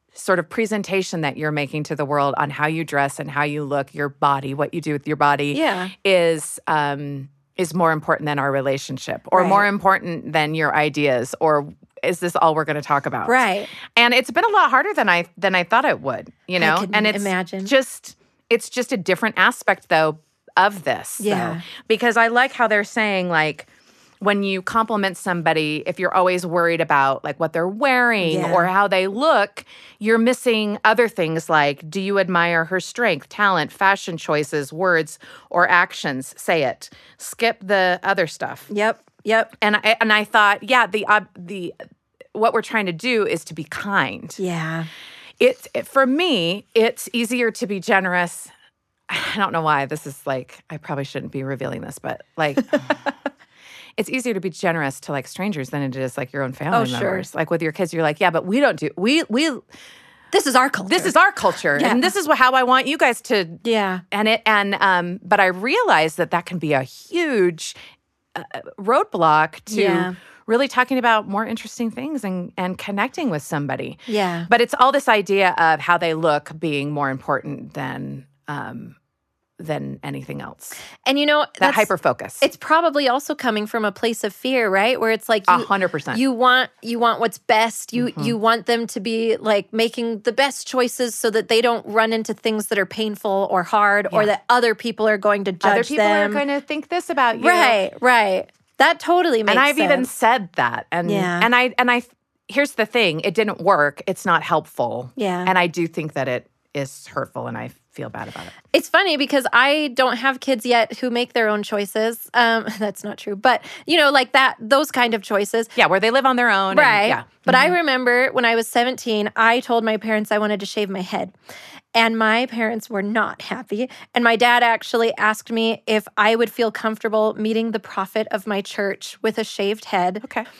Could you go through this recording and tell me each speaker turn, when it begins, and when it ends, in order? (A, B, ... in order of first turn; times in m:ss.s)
0:00.1-0:23.7 A
0:05.5-0:05.9 B
0:09.3-0:09.6 B
0:13.2-0:13.7 B
0:16.6-0:17.7 B
0:21.2-0:21.6 B
0:24.2-0:38.7 A
0:28.2-0:28.7 B
0:38.7-0:39.5 B
0:39.6-0:41.7 A
0:42.3-0:44.4 A
0:44.4-0:44.9 B
0:45.4-0:48.5 A
0:49.1-0:53.0 A
0:54.0-0:59.6 A
0:56.7-0:57.3 B
1:00.3-1:01.1 B
1:00.9-1:03.6 A
1:01.8-1:02.1 B
1:03.6-1:04.0 B
1:04.1-1:07.7 A
1:08.3-1:19.0 A
1:09.7-1:10.1 B
1:14.1-1:14.5 B
1:19.6-1:20.8 A
1:21.0-1:21.9 B
1:21.6-1:22.4 A
1:22.4-1:36.4 B
1:25.5-1:26.2 A
1:28.0-1:28.3 A
1:35.6-1:37.8 A
1:37.3-1:40.1 B
1:39.5-1:48.5 A
1:41.0-1:41.5 B
1:45.2-1:45.5 B
1:48.7-1:55.7 B
1:55.8-1:57.8 A
1:56.7-2:01.3 B
2:01.9-2:10.2 B